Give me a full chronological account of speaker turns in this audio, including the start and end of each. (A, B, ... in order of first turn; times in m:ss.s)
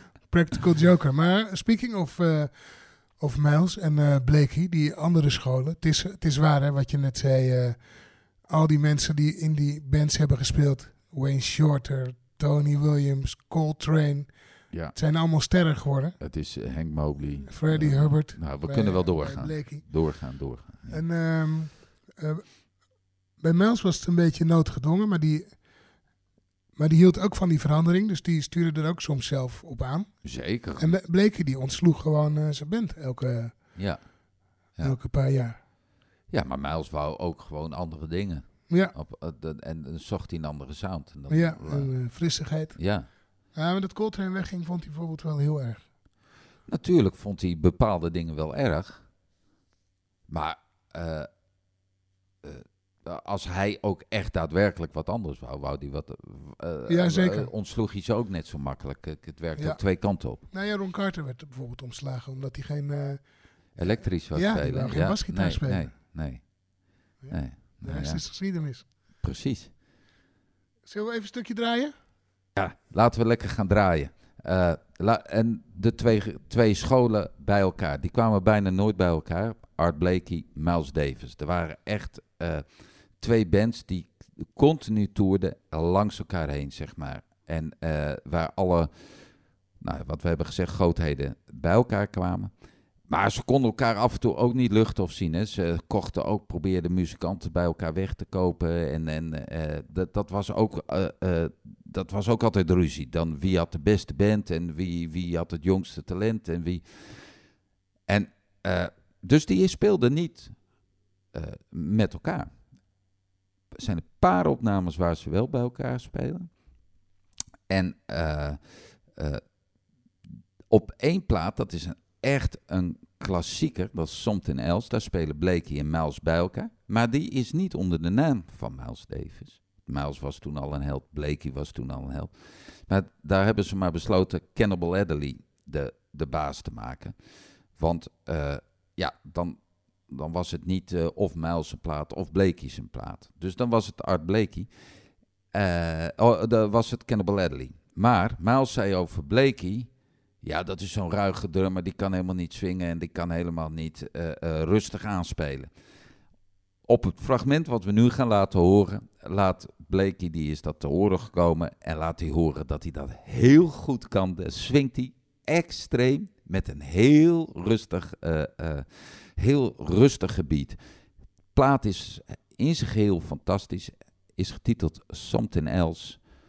0:00.3-0:16.2 A
0:14.7-0:15.0 B
0:16.2-0:21.0 B
0:17.5-0:26.1 A
0:26.7-0:35.6 A
0:30.2-0:31.0 B
0:33.7-0:35.0 B
0:36.3-0:43.1 B
0:38.7-0:38.9 A
0:41.3-0:45.9 A
0:46.6-0:49.1 B
0:50.3-0:51.3 B
0:52.4-1:00.4 B
0:56.9-0:57.5 A
0:59.6-1:05.9 A
1:03.8-1:08.3 B
1:07.2-1:08.9 A
1:09.2-1:09.7 B
1:10.8-1:11.9 A
1:12.5-1:32.5 B
1:33.1-1:47.5 B
1:48.1-1:50.7 B
1:51.3-1:52.5 B
1:53.7-1:56.6 B
1:57.7-1:59.4 B
2:00.7-2:25.0 B
2:25.5-2:29.9 B
2:30.4-2:35.7 B
2:36.8-2:50.8 B
2:51.5-2:56.3 B